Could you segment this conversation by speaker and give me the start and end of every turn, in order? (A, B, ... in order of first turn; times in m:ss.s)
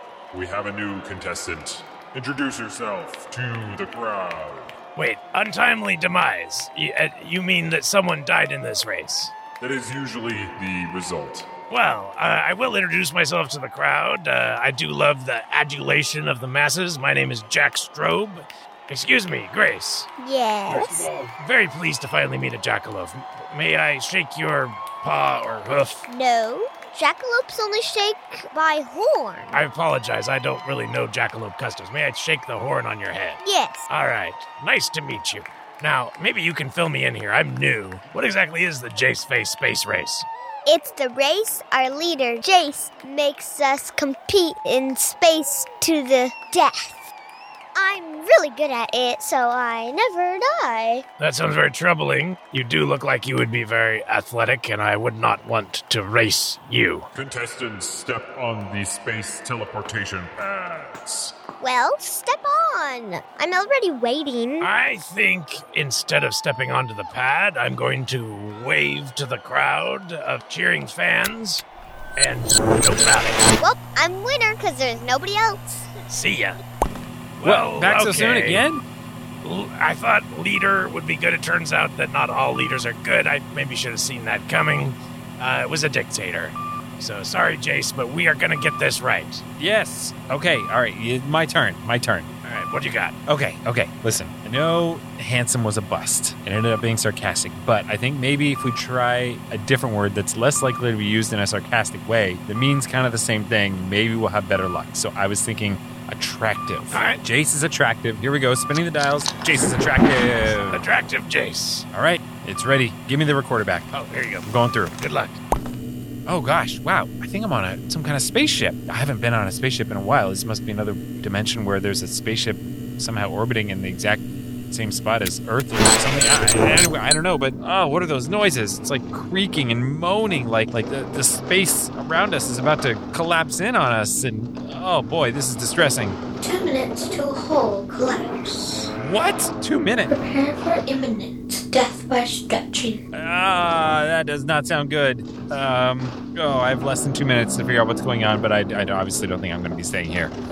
0:00.3-0:04.7 A
0:05.0-0:09.4 B
0:09.6-0:11.5 A
0:11.7-0:20.1 B
0:20.2-0:21.1 C
0:20.7-0:21.3 A
0:21.4-0:26.0 B
0:26.0-0:29.6 C
0:29.5-0:40.3 B
0:33.4-0:33.9 C
0:40.7-0:47.0 C
0:47.8-0:51.0 C
0:51.2-0:57.1 B
0:57.1-1:01.3 A
1:01.6-1:04.7 C
1:04.6-1:11.6 B
1:12.2-1:13.5 B
1:13.6-1:15.9 C
1:16.1-1:16.6 B
1:17.4-1:18.6 B
1:17.4-1:18.8 D
1:19.4-1:29.4 B
1:29.6-1:32.3 D
1:32.4-1:33.2 B
1:33.3-1:50.8 D
1:46.9-1:47.2 B
1:50.4-1:51.9 B
1:51.9-1:53.9 D
1:53.9-1:55.4 B
1:54.4-1:54.9 D
1:56.3-2:16.2 D
2:16.4-2:18.9 E
2:19.0-2:20.2 D
2:20.1-2:23.0 E
2:23.1-2:30.3 D